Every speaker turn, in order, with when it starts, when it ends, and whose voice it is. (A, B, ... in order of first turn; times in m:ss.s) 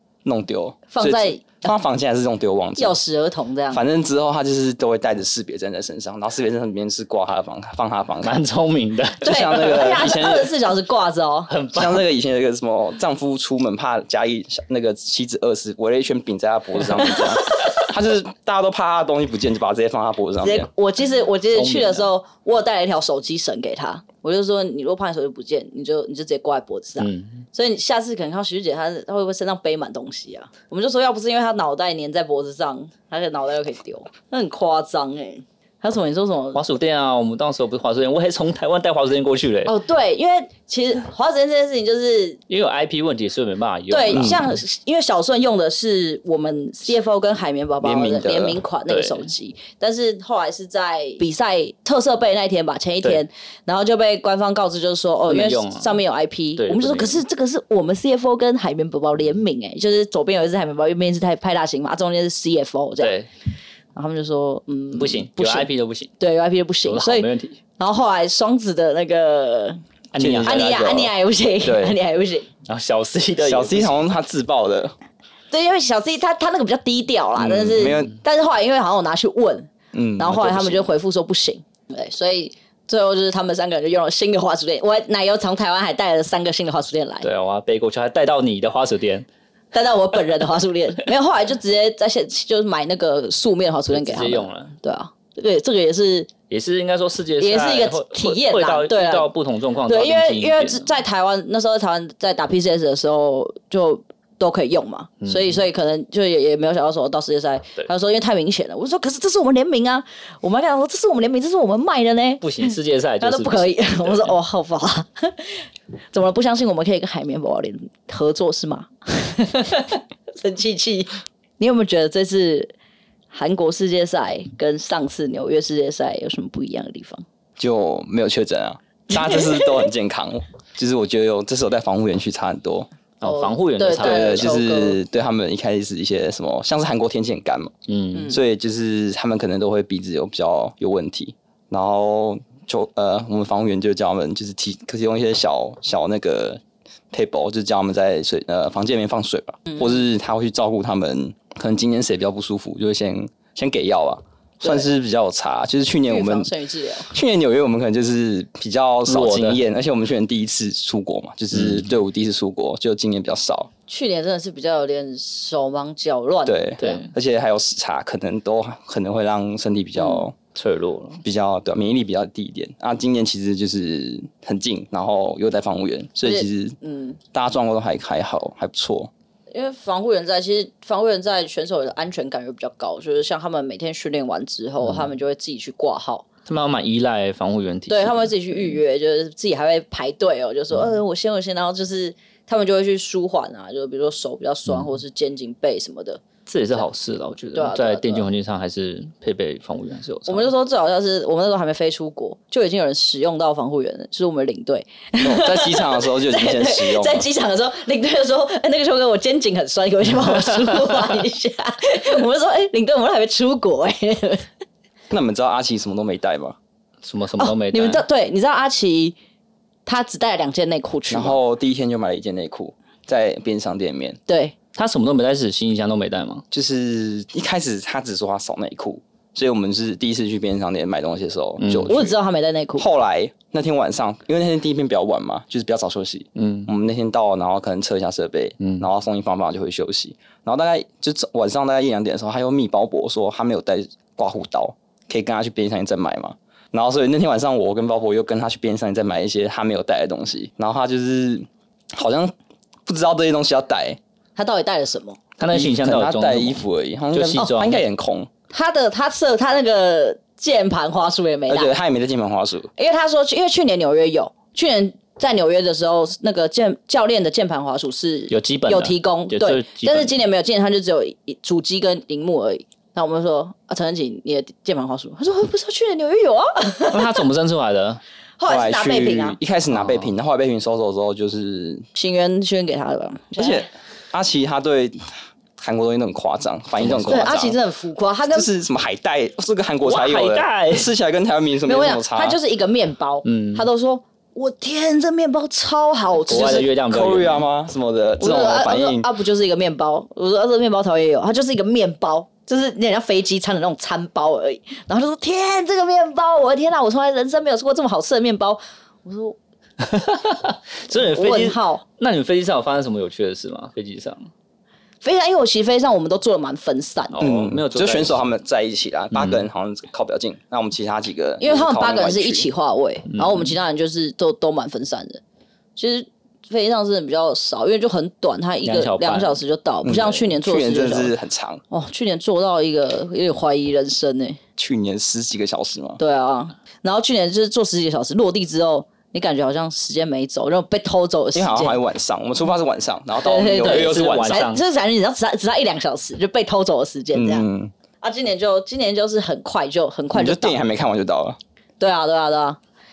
0:00.2-0:03.0 A
0:00.9-0:01.7 B
0:02.8-0:03.8 B
0:03.7-0:08.4 A
0:08.2-0:09.8 C
0:09.2-0:10.5 A
0:09.2-0:11.5 B
0:11.5-0:12.0 C
0:11.7-0:20.7 A
0:17.1-0:17.7 B
0:20.4-0:36.6 B
0:21.5-0:22.1 C
0:27.0-0:27.4 C
0:36.5-0:39.7 C
0:39.6-0:42.4 B
0:42.5-0:44.4 C
0:43.9-1:03.1 B
0:44.1-0:44.4 A
0:47.8-0:48.6 A
0:48.9-0:49.3 C
0:55.3-0:56.0 C
0:56.6-0:57.2 C
1:03.0-1:03.3 C
1:03.9-1:05.7 B
1:05.0-1:06.1 C
1:06.2-1:09.8 B
1:06.8-1:07.6 C
1:10.1-1:10.7 C
1:10.2-1:12.0 A
1:10.4-1:12.5 B
1:12.6-1:14.0 C
1:13.4-1:14.9 A
1:15.5-1:27.3 B
1:17.4-1:18.1 A
1:19.9-1:20.9 A
1:27.2-1:29.3 C
1:29.7-1:36.3 B
1:33.9-1:34.7 C
1:36.5-1:40.9 C
1:37.4-1:39.3 B
1:39.9-1:55.6 B
1:45.2-1:45.6 C
1:52.4-1:54.4 C
1:56.1-2:02.7 B
2:03.3-2:07.2 B
2:07.6-2:12.9 A
2:09.1-2:09.8 B
2:13.2-2:14.5 C
2:13.2-2:15.0 B
2:14.0-2:17.7 A
2:17.9-2:18.3 C
2:18.1-2:18.4 B
2:18.3-2:36.5 A
2:34.6-2:34.9 B
2:36.1-2:37.1 B
2:37.1-2:43.7 A
2:39.1-2:39.6 C
2:41.5-2:41.8 C
2:43.9-2:47.0 B
2:46.4-2:50.4 A
2:46.8-2:47.1 C
2:50.5-2:51.2 C
2:51.2-2:56.8 A
2:56.2-2:57.2 B
2:57.3-2:59.1 A
2:59.5-3:06.2 B
3:06.5-3:08.8 C
3:07.9-3:16.2 B
3:16.5-3:20.5 C
3:17.5-3:18.2 B
3:20.3-3:34.4 B
3:25.2-3:27.3 A
3:35.1-3:36.6 A
3:37.0-3:38.0 C
3:37.4-3:39.2 B
3:39.8-3:41.4 B
3:41.1-3:44.2 A
3:44.3-3:44.6 B
3:44.7-3:46.4 C
3:46.5-3:52.2 A
3:51.6-3:51.9 C
3:51.9-3:52.8 B
3:52.8-4:12.3 A
3:56.4-3:56.7 C
3:58.6-3:58.8 C
4:12.8-4:14.0 A
4:14.4-4:15.2 B
4:15.4-4:17.8 C
4:15.5-4:18.3 A
4:18.5-4:21.7 B
4:21.5-4:22.7 A
4:22.8-4:37.2 B
4:28.3-4:30.1 C
4:36.9-4:38.0 C
4:38.4-4:39.4 B
4:38.5-4:41.8 A
4:39.7-4:40.1 C
4:41.9-4:43.7 B
4:43.4-4:47.6 A
4:46.8-4:47.3 C
4:47.1-4:48.5 B
4:48.3-4:52.4 A
4:49.8-4:50.9 C
4:51.6-4:56.7 B
4:53.2-4:53.7 C
4:56.3-4:57.4 C
4:56.3-4:59.1 A
4:58.2-5:09.4 B
5:09.8-5:14.3 C
5:11.0-5:11.8 B
5:15.0-5:17.2 B
5:17.1-5:18.2 C
5:17.2-5:22.5 A
5:19.1-5:19.4 C
5:21.4-5:25.2 B
5:23.1-5:23.5 C
5:25.8-5:31.1 B
5:28.6-5:29.4 C
5:29.8-5:31.6 A
5:31.7-5:34.4 B
5:34.6-5:36.0 A
5:36.0-5:41.8 B
5:41.3-5:44.5 A
5:43.2-5:47.4 B
5:43.5-5:44.6 C
5:47.1-5:47.7 A
5:48.0-5:50.6 B
5:50.1-5:51.4 A
5:51.8-5:52.6 B